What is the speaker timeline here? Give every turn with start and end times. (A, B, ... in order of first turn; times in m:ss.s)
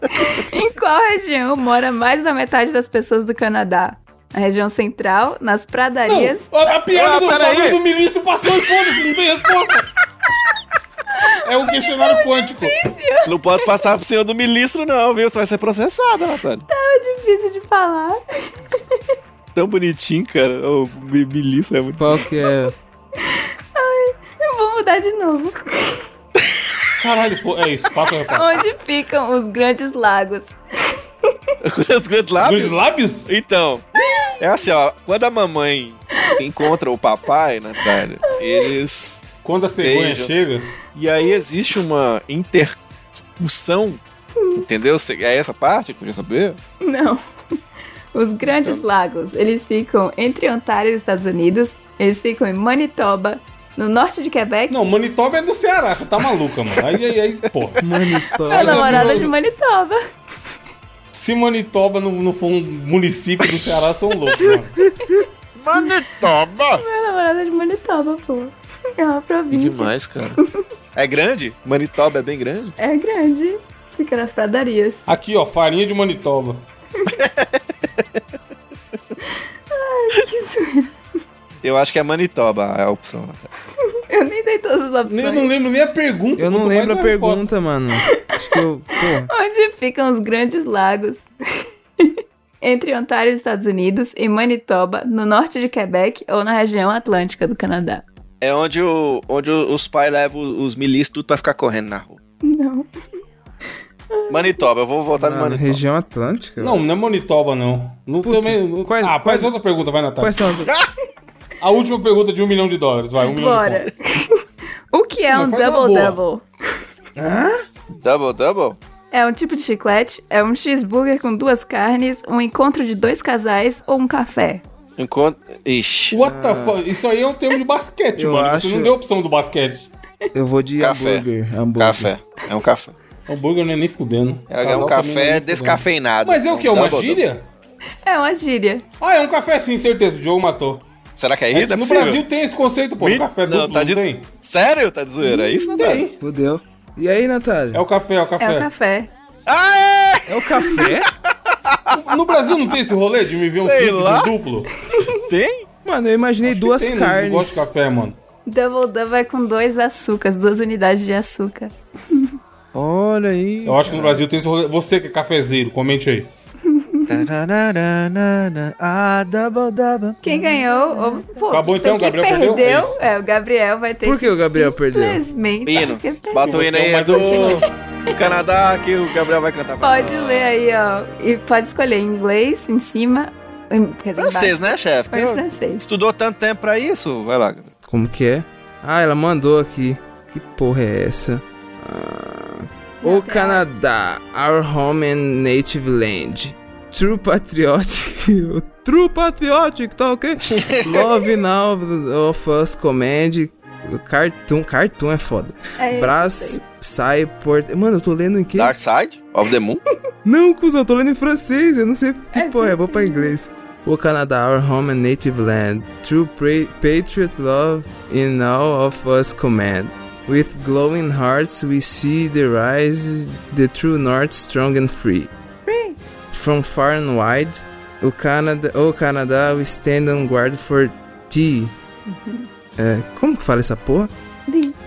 0:00.1-0:06.5 A
0:06.1-0:09.9 B
0:06.8-0:07.8 C
0:11.1-0:11.4 A
0:11.4-0:12.8 B
0:12.0-0:13.7 A
0:13.2-0:16.7 C
0:16.7-0:19.0 A
0:19.5-0:22.2 C
0:22.0-0:22.7 D
0:23.2-0:26.0 A
0:27.0-0:28.6 B
0:28.3-0:31.3 A
0:31.6-0:33.8 C
0:32.4-0:33.3 B
0:34.0-0:34.4 A
0:34.4-0:39.3 C
0:38.3-0:38.7 A
0:39.4-0:40.7 B
0:39.8-0:40.3 C
0:40.9-0:42.8 C
0:43.4-0:44.0 C
0:44.6-0:46.6 C
0:46.8-0:47.2 A
0:48.1-0:54.8 A
0:48.4-0:48.9 C
0:54.7-0:57.8 B
0:57.8-0:59.3 D
0:58.5-0:59.3 B
0:58.5-1:00.0 A
1:01.1-1:04.8 B
1:05.6-1:06.8 C
1:06.8-1:10.6 A
1:09.5-1:10.4 C
1:11.0-1:12.8 C
1:12.8-1:15.0 A
1:15.1-1:16.6 B
1:17.1-1:17.6 C
1:19.2-1:20.9 A
1:21.6-1:23.5 C
1:24.1-1:25.5 A
1:25.1-1:27.4 B
1:26.4-1:29.3 D
1:28.1-1:31.3 A
1:32.0-1:38.0 A
1:38.4-1:42.2 C
1:42.4-1:42.9 A
1:44.1-1:44.6 A
1:44.3-1:45.8 C
1:45.1-1:46.8 D
1:46.6-1:50.4 B
1:48.2-1:49.6 D
1:50.2-1:50.7 D
1:51.6-1:53.9 B
1:53.3-1:56.4 A
1:55.3-1:56.2 B
1:57.2-1:57.6 D
1:57.9-1:58.8 C
1:59.1-2:04.6 A
2:05.0-2:06.2 C
2:06.1-2:09.9 B
2:06.2-2:06.8 D
2:08.1-2:09.0 D
2:10.3-2:12.1 D
2:10.8-2:11.2 C
2:11.8-2:12.9 C
2:13.3-2:17.4 B
2:14.5-2:17.2 C
2:18.0-2:18.8 A
2:19.0-2:20.9 B
2:21.2-2:22.2 C
2:21.5-2:24.2 B
2:23.0-2:26.1 C
2:25.2-2:25.8 A
2:25.8-2:26.2 B
2:26.2-2:27.8 D
2:27.7-2:28.7 B
2:28.4-2:29.1 A
2:29.5-2:32.0 C
2:30.3-2:31.1 D
2:31.9-2:34.7 B
2:33.6-2:34.3 C
2:34.8-2:35.2 A
2:35.1-2:35.6 C
2:35.8-2:37.7 D
2:36.4-2:38.2 B
2:38.4-2:42.3 A
2:42.7-2:44.2 C
2:43.6-2:46.3 B
2:46.7-2:47.2 A
2:47.1-2:50.2 C
2:50.2-2:57.7 A
2:51.5-2:53.0 B
2:54.0-2:55.2 D
2:55.6-3:00.5 C
2:56.4-2:57.7 B
2:59.8-3:05.8 A
3:04.2-3:07.7 C
3:07.9-3:28.8 D
3:13.0-3:13.6 A
3:20.5-3:21.0 C
3:25.8-3:26.6 A
3:28.5-3:29.8 C
3:30.2-3:45.3 D
3:32.3-3:33.3 A
3:45.6-3:46.0 A
3:46.3-3:51.7 D
3:52.1-3:52.5 A
3:52.8-3:54.1 D
3:54.5-3:54.8 A